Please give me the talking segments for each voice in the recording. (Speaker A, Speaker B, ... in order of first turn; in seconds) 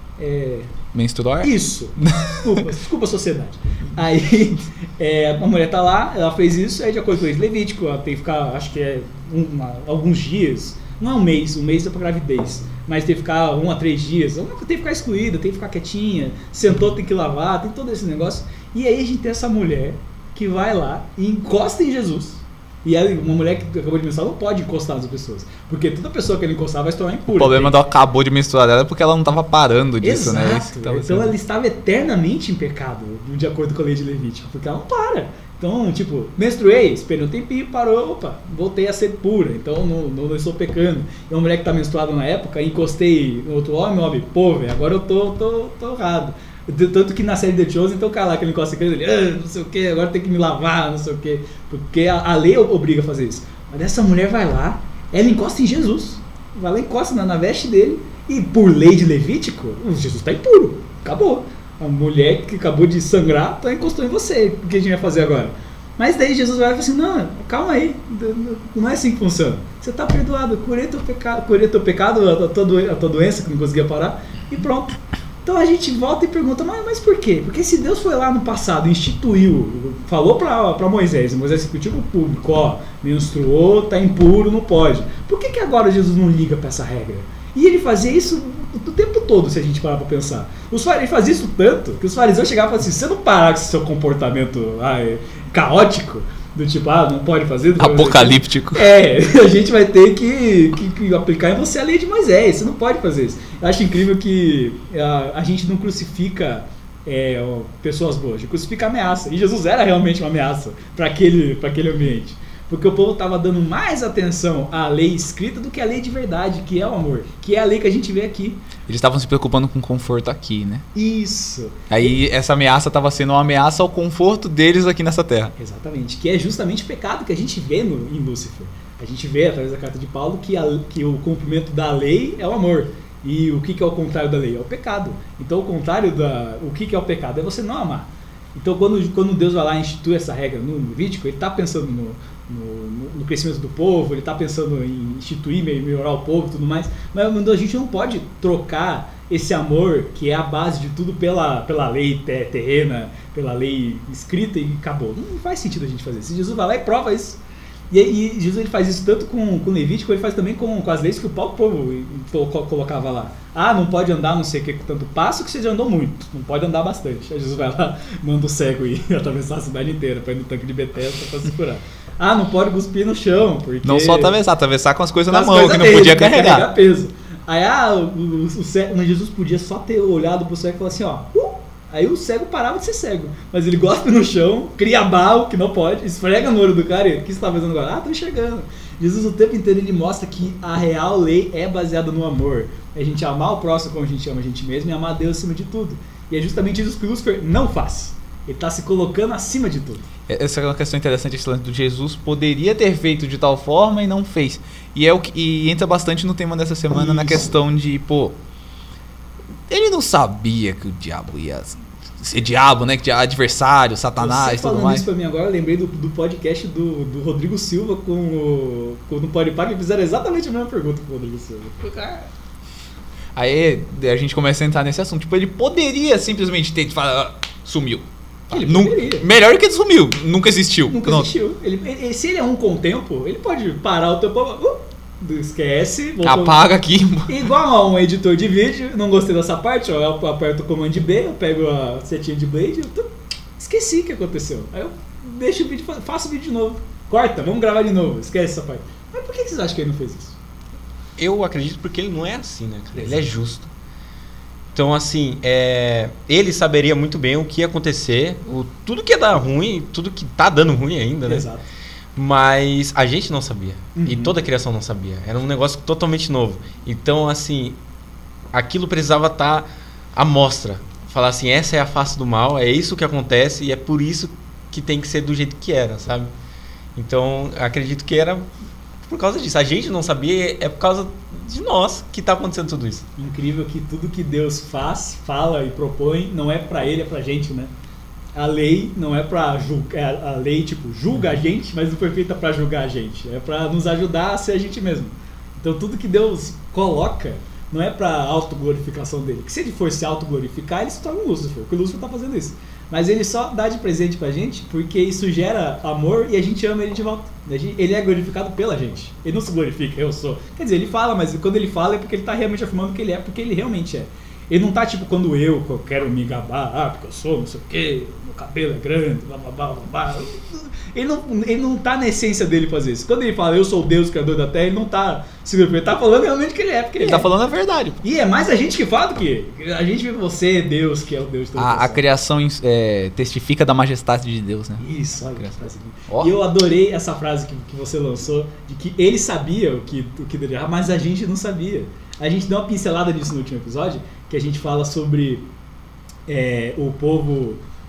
Speaker A: 0.2-0.7, 1.4-27.8, 30.0-118.6, 121.0-122.1, 125.6-157.4, 157.9-174.3, 175.3-200.1, 206.9-207.5, 214.2-222.3, 228.5-229.3, 230.9-236.6, 237.3-250.4, 252.9-253.3, 261.2-261.7, 263.9-264.4, 283.2-287.7, 288.4-327.3, 328.0-332.0, 334.8-345.5, 346.3-347.6
Speaker B: 0.9-2.6, 27.4-31.4, 97.8-98.9, 118.9-120.9, 121.9-125.5, 173.8-176.7, 200.3-208.4, 209.7-215.1, 223.3-231.3, 236.2-237.5, 327.0-328.0, 331.6-334.8, 335.4-336.3
Speaker C: 251.2-253.7, 254.7-261.5, 262.1-267.8, 268.5-276.3, 276.9-278.5, 279.1-283.1